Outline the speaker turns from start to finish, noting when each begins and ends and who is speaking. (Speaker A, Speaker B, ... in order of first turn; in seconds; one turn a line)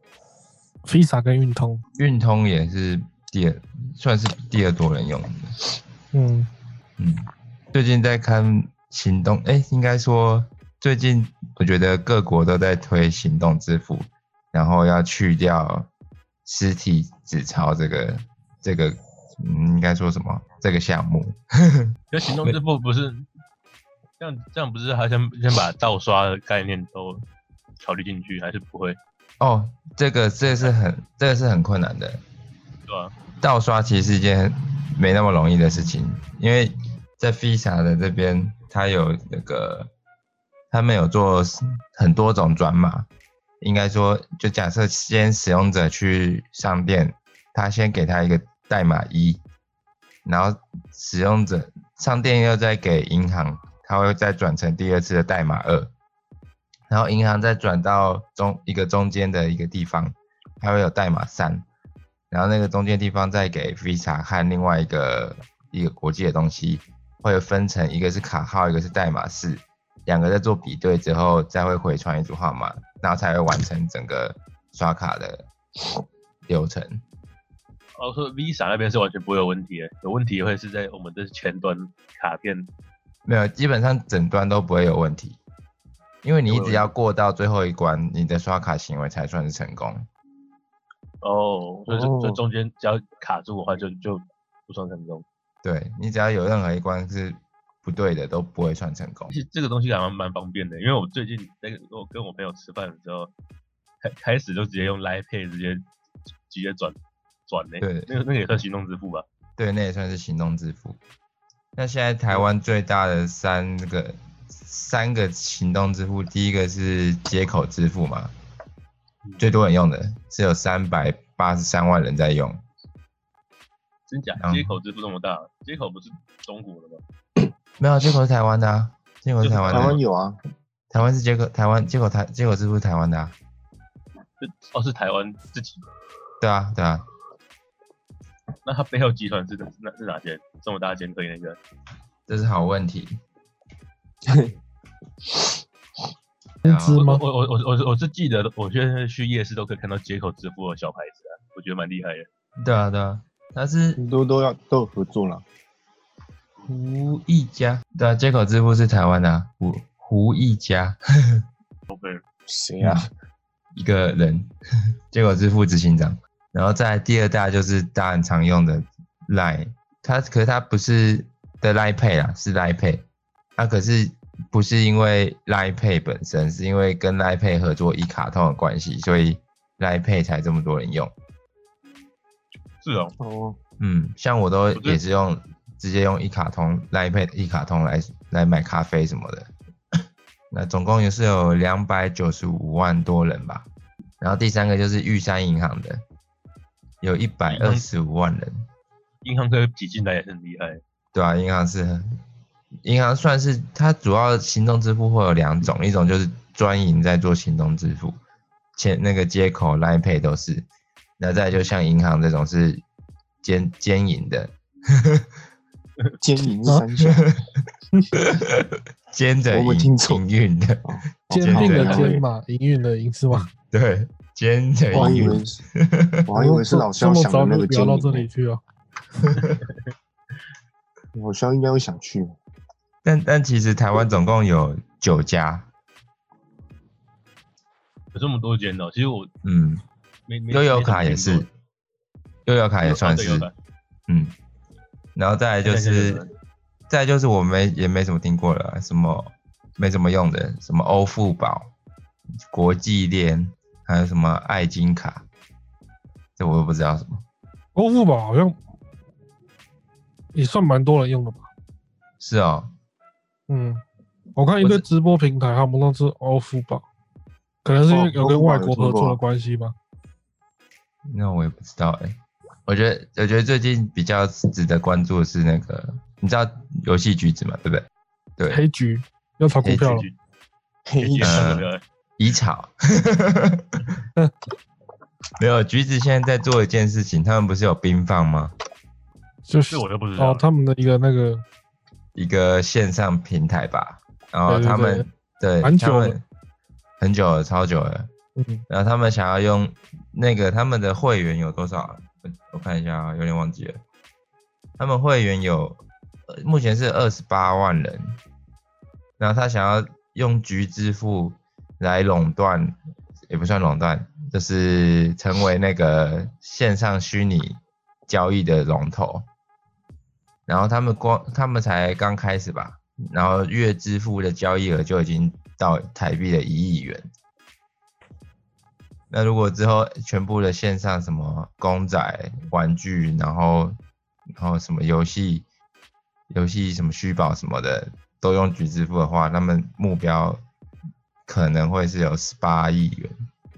Speaker A: 0.8-1.8
Speaker B: 2.0-5.5
Speaker A: 6.1-6.5
Speaker B: 7.0-15.9
Speaker B: 16.4-22.6
Speaker C: 22.1-23.3
Speaker C: 24.2-27.2
Speaker C: 27.8-29.0
Speaker B: 29.4-32.2
Speaker C: 32.9-33.1
Speaker B: 33.4-39.9
Speaker B: 40.7-43.1
Speaker B: 43.6-49.4
Speaker B: 50.2-55.9
Speaker B: 56.9-61.7
Speaker B: 62.3-75.5
Speaker B: 76.5-77.0
Speaker C: 78.0-82.7
Speaker B: 83.2-85.4
Speaker B: 86.2-90.1
Speaker C: 86.5-86.8
Speaker C: 91.2-95.2
Speaker D: 91.9-92.4
Speaker B: 95.6-99.3
Speaker C: 99.3-103.3
Speaker C: 104.0-105.8
Speaker C: 106.5-107.0
Speaker C: 107.5-109.2
Speaker B: 107.8-108.1
Speaker B: 109.6-111.0
Speaker B: 111.8-118.3
Speaker B: 119.4-122.6
Speaker C: 124.1-127.0
Speaker B: 124.4-124.8
Speaker B: 127.8-130.0
Speaker C: 129.4-130.0
Speaker D: 129.7-130.4
Speaker B: 130.9-133.3
Speaker C: 134.4-135.8
Speaker B: 136.4-137.0
Speaker C: 138.6-141.6
Speaker B: 142.3-143.2
Speaker D: 144.3-144.5
Speaker A: 146.6-147.2
Speaker B: 146.7-147.1
Speaker C: 146.9-152.3
Speaker B: 152.6-154.0
Speaker D: 154.0-155.4
Speaker B: 156.7-161.4
Speaker C: 161.9-162.2
Speaker D: 162.5-163.1
Speaker B: 162.8-163.1
Speaker B: 163.7-164.5
Speaker B: 165.1-173.0
Speaker B: 173.6-181.1
Speaker C: 182.8-183.1
Speaker D: 183.2-183.6
Speaker B: 183.8-189.5
Speaker C: 184.7-185.0
Speaker B: 190.5-193.7
Speaker B: 194.2-196.0
Speaker B: 197.0-198.7
Speaker C: 197.5-197.8
Speaker C: 199.2-200.8
Speaker B: 201.1-202.2
Speaker B: 202.8-208.2
Speaker B: 208.8-210.7
Speaker B: 211.2-212.8
Speaker B: 213.4-215.3
Speaker D: 216.2-217.3
Speaker B: 217.0-217.6
Speaker B: 218.2-222.2
Speaker D: 219.5-220.2
Speaker D: 220.9-222.2
Speaker A: 221.3-223.5
Speaker B: 223.3-226.3
Speaker D: 224.9-225.6
Speaker D: 226.3-228.3
Speaker A: 226.3-228.6
Speaker D: 231.1-232.3
Speaker B: 233.0-235.7
Speaker C: 238.1-239.3
Speaker B: 239.4-239.8
Speaker C: 240.3-241.5
Speaker B: 240.5-241.5
Speaker B: 242.5-243.5
Speaker C: 242.8-243.5
Speaker B: 244.1-244.3
Speaker B: 245.2-246.2
Speaker C: 245.6-246.3
Speaker B: 246.9-251.7
Speaker B: 252.4-255.2
Speaker B: 256.4-257.2
Speaker A: 257.8-258.6
Speaker A: 260.3-261.5
Speaker B: 262.2-262.7
Speaker A: 263.5-263.8
Speaker A: 264.4-266.9
Speaker A: 267.6-269.8
Speaker D: 267.9-269.2
Speaker B: 271.1-277.9
Speaker A: 278.5-280.1
Speaker B: 279.6-280.0
Speaker D: 280.9-281.4
Speaker C: 281.0-281.8
Speaker B: 281.2-281.7
Speaker B: 282.2-283.9
Speaker B: 285.4-288.5
Speaker A: 289.5-291.4
Speaker C: 289.7-290.4
Speaker B: 292.1-296.2
Speaker A: 294.5-295.0
Speaker A: 295.6-296.1
Speaker B: 297.0-298.1
Speaker A: 298.4-298.6
Speaker B: 298.7-303.8
Speaker B: 304.8-308.2
Speaker B: 309.2-312.8
Speaker B: 313.3-319.2
Speaker B: 320.5-327.1
Speaker B: 329.1-333.8
Speaker B: 334.3-335.4
Speaker B: 336.3-340.4
Speaker B: 341.3-343.2